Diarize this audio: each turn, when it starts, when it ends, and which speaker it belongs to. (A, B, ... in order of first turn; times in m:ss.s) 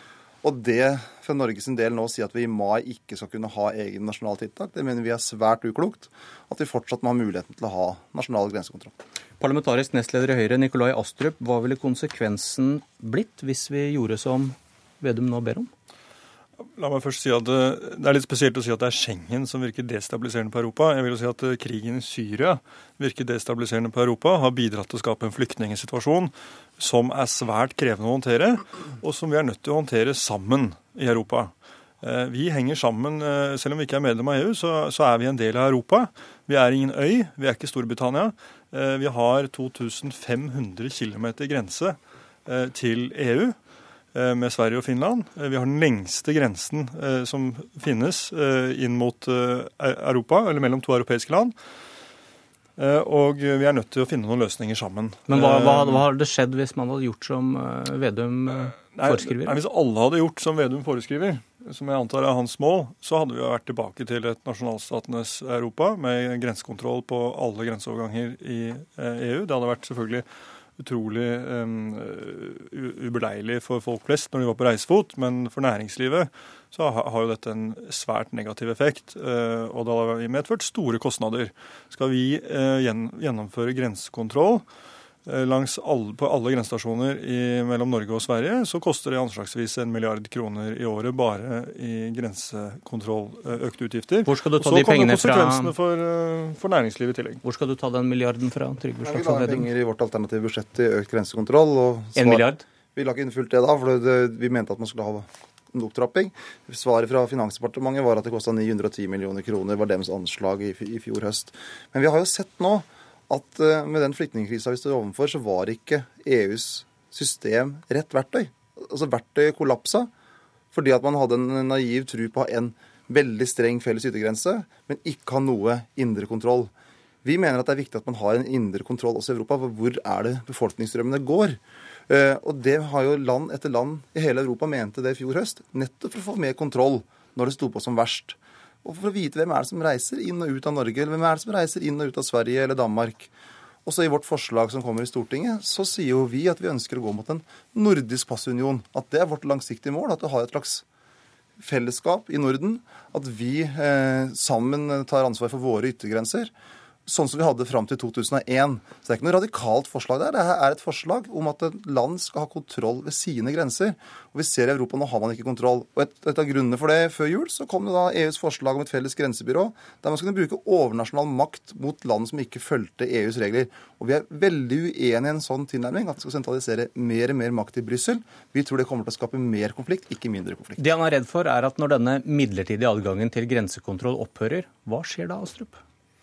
0:00.4-0:09.0 A
0:09.4-0:15.7 B
0:16.8-0:43.6 C
0:44.1-0:51.5 C
0:52.8-0:56.0 C
0:55.3-0:59.6 B
0:58.5-1:10.2 C
1:10.8-1:24.6 C
1:25.2-1:37.4 C
1:34.2-1:35.8 B
1:37.4-1:39.7 B
1:39.0-2:00.1 A
1:42.2-1:42.6 B
2:00.7-2:06.7 A
2:07.2-2:23.3 A
2:23.8-2:30.8 A
2:31.6-2:36.5 A
2:37.0-3:00.8 A
3:00.8-3:05.8 B